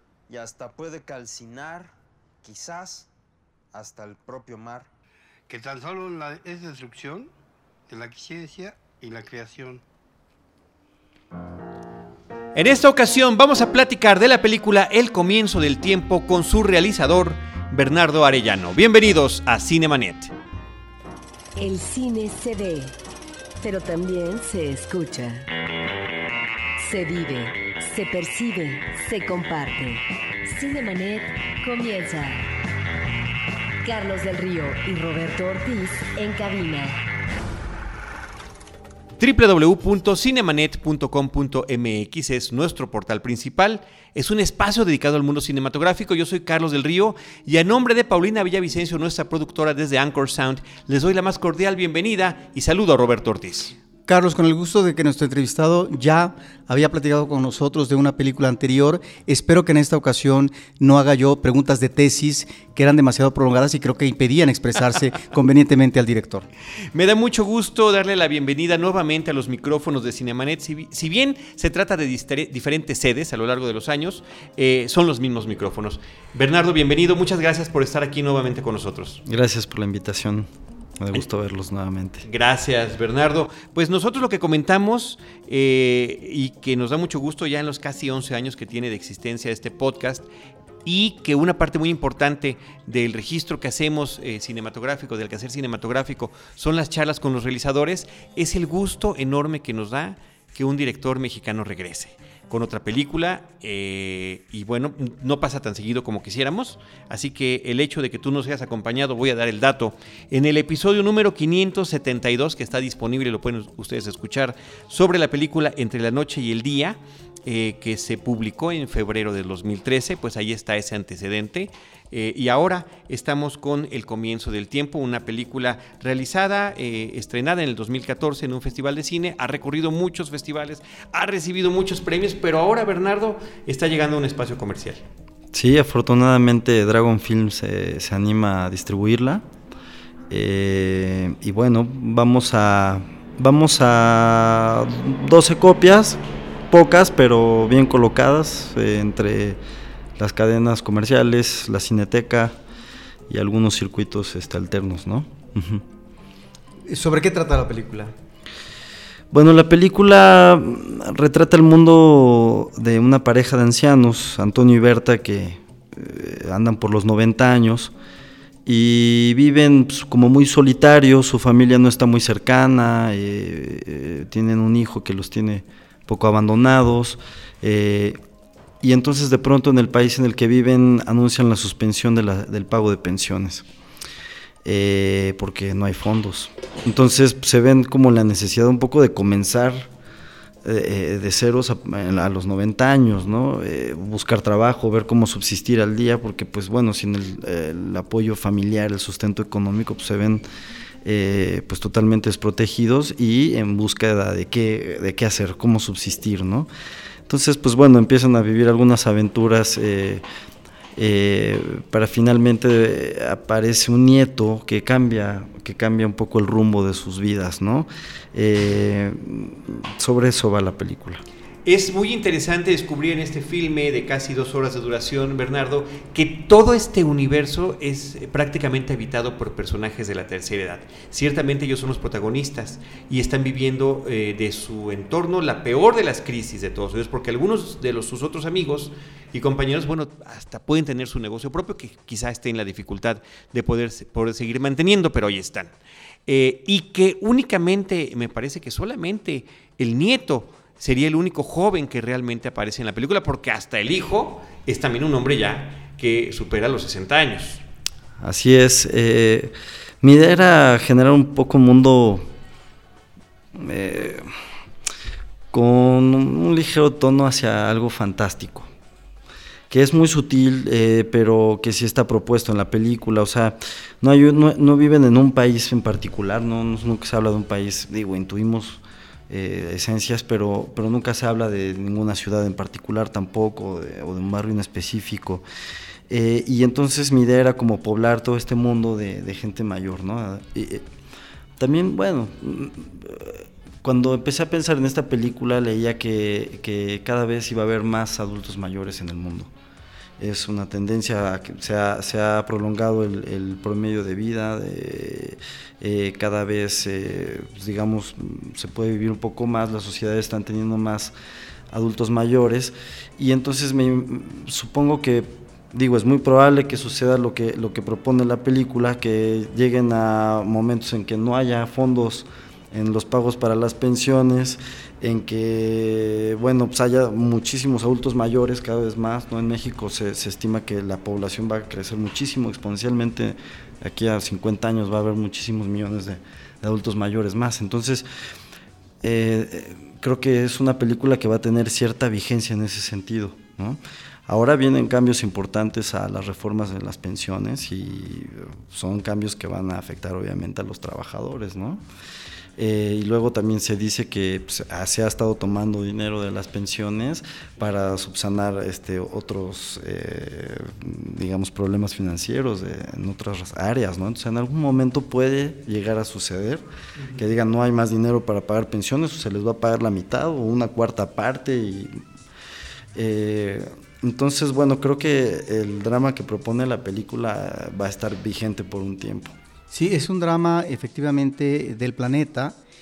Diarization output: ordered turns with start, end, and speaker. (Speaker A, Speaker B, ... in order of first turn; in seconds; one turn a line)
Speaker A: 0.3-1.9
Speaker A: 2.4-3.1
Speaker A: 3.7-4.9
Speaker B: 5.5-7.3
Speaker B: 7.9-9.8
Speaker C: 12.6-20.3
Speaker D: 21.6-22.9
Speaker D: 23.6-25.5
Speaker D: 26.8-32.5
Speaker D: 33.8-37.0
Speaker C: 39.2-53.8
Speaker E: 54.1-66.5
Speaker C: 66.9-79.2
Speaker F: 79.2-82.3
Speaker C: 82.2-90.3
Speaker C: 90.8-135.0
Speaker F: 135.5-139.5
Speaker F: 140.3-146.2
Speaker F: 146.7-149.6
Speaker F: 150.2-152.6
Speaker F: 153.3-155.8
Speaker E: 156.9-158.1
Speaker F: 159.3-167.9
Speaker F: 168.7-178.2
Speaker F: 178.8-183.7
Speaker F: 184.7-189.9
Speaker F: 190.6-200.4
Speaker F: 201.1-206.7
Speaker F: 207.3-210.2
Speaker F: 211.0-221.2
Speaker C: 221.7-245.7
Speaker C: 246.3-257.6
Speaker F: 258.2-262.3
Speaker F: 263.6-264.3
Speaker F: 265.5-268.7
Speaker F: 269.7-285.4
Speaker F: 286.1-290.9
Speaker F: 291.6-299.5
Speaker F: 300.2-311.1
Speaker F: 311.7-338.1
Speaker F: 339.0-351.8
Speaker F: 352.6-366.6
Speaker F: 367.1-372.0
Speaker F: 372.9-379.4
Speaker E: 379.7-382.6